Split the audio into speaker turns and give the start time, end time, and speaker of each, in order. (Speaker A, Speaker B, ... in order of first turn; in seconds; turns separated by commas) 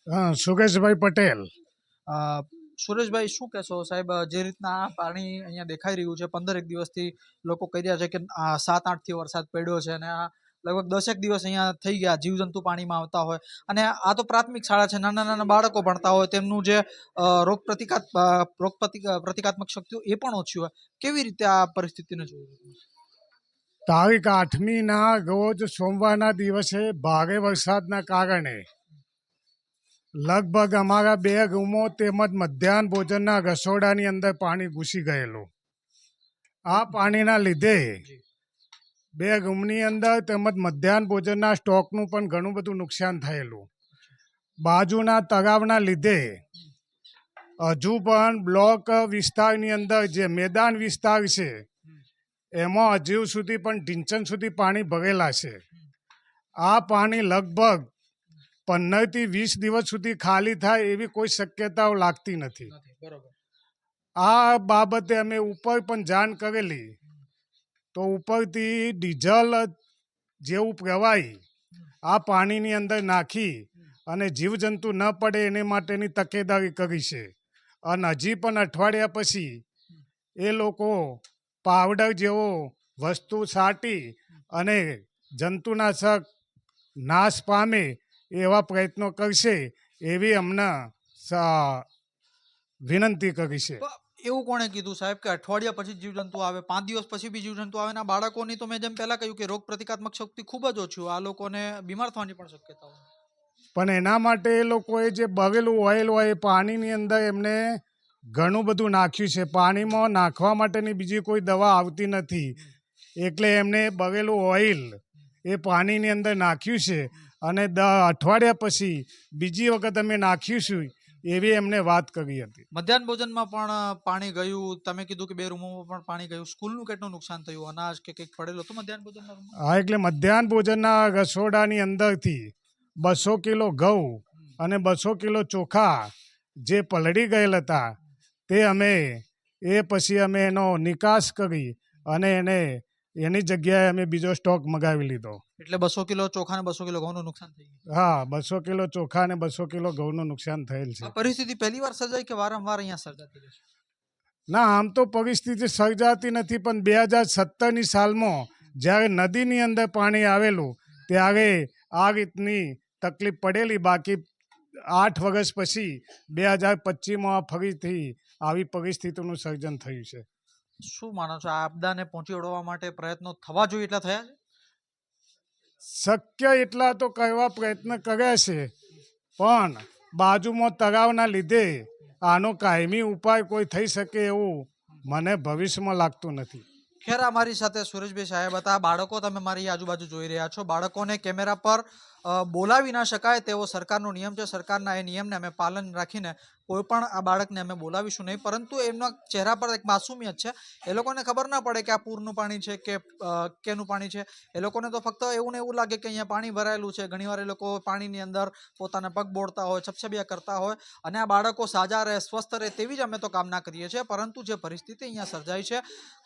Speaker A: 0.1-1.5, Speaker B: 2.1-22.8, Speaker A: 23.9-28.6, Speaker A: 30.2-35.5, Speaker A: 36.7-38.0, Speaker A: 39.2-43.6, Speaker A: 44.6-46.4, Speaker A: 47.6-51.6, Speaker A: 52.6-55.6, Speaker A: 56.6-57.9, Speaker A: 58.7-62.7, Speaker B: 62.7-63.3, Speaker A: 64.2-66.9, Speaker A: 67.9-69.7, Speaker A: 70.4-71.4, Speaker A: 72.1-77.3, Speaker A: 77.9-79.6, Speaker A: 80.4-86.2, Speaker A: 87.0-91.9, Speaker A: 92.8-93.8, Speaker B: 93.8-103.0, Speaker A: 103.7-107.8, Speaker A: 108.3-112.5, Speaker A: 113.2-122.6, Speaker B: 122.7-129.5, Speaker A: 129.6-132.5, Speaker A: 133.0-136.1, Speaker A: 136.6-137.9, Speaker A: 138.5-145.4, Speaker B: 145.6-147.8, Speaker A: 147.9-151.1, Speaker B: 151.0-153.6, Speaker A: 154.5-164.2, Speaker A: 164.9-170.2, Speaker B: 170.8-174.3, Speaker A: 176.0-178.7, Speaker A: 179.4-186.6, Speaker B: 187.0-215.8